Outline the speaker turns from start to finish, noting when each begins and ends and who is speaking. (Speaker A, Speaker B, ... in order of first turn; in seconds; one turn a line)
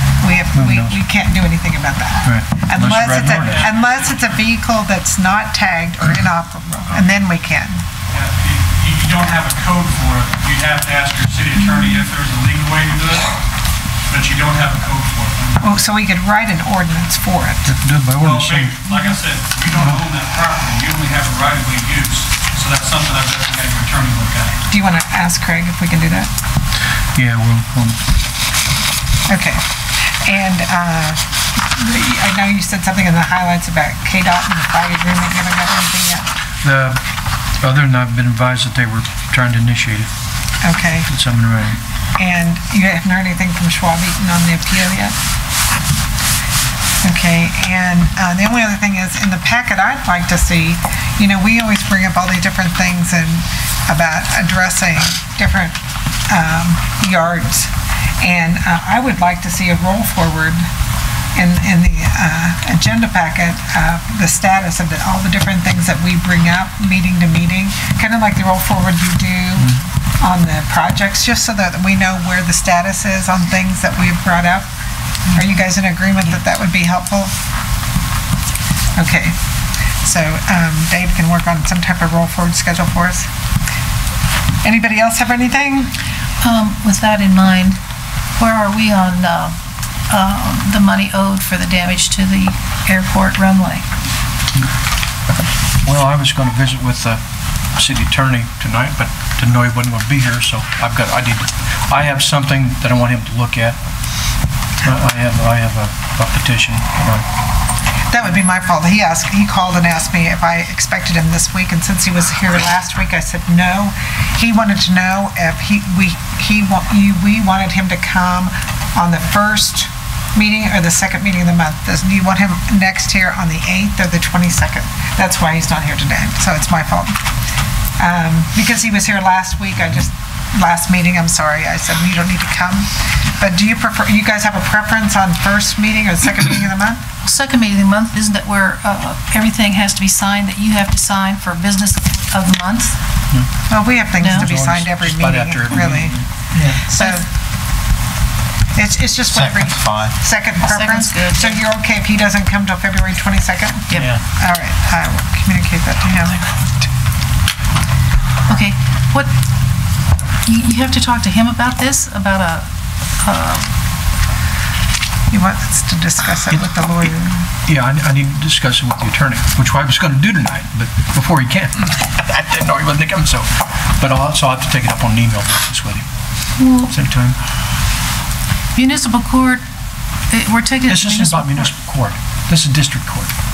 Speaker A: 0.2-7.8
Speaker B: 0.5-1.0
Speaker B: 2.2-3.6
Speaker C: 3.4-4.4
Speaker C: 8.1-13.4
Speaker C: 14.1-15.7
Speaker A: 15.6-17.7
Speaker B: 17.6-18.8
Speaker C: 18.2-24.6
Speaker A: 24.7-26.3
Speaker B: 27.1-28.0
Speaker A: 29.3-36.3
Speaker B: 36.6-37.0
Speaker B: 37.6-40.1
Speaker A: 40.6-41.1
Speaker B: 41.1-41.8
Speaker A: 42.2-45.1
Speaker A: 47.0-60.6
Speaker A: 61.3-74.7
Speaker A: 75.3-77.3
Speaker A: 79.0-79.3
Speaker A: 80.0-83.3
Speaker A: 84.6-85.9
Speaker D: 86.4-87.8
Speaker D: 88.4-89.5
Speaker D: 90.1-93.8
Speaker B: 95.8-97.2
Speaker B: 97.7-103.8
Speaker B: 104.8-107.2
Speaker A: 108.1-127.2
Speaker A: 128.0-137.0
Speaker D: 137.2-143.0
Speaker A: 143.7-146.2
Speaker D: 144.2-144.5
Speaker B: 144.3-146.8
Speaker D: 146.8-147.2
Speaker A: 146.8-147.3
Speaker A: 148.7-156.6
Speaker D: 150.6-151.6
Speaker B: 153.9-154.2
Speaker D: 158.5-159.3
Speaker D: 160.4-162.7
Speaker D: 163.2-163.7
Speaker A: 165.3-167.5
Speaker B: 167.7-176.1
Speaker D: 176.6-176.9
Speaker B: 176.8-177.3
Speaker D: 178.8-179.6
Speaker D: 180.3-181.7
Speaker B: 180.9-183.3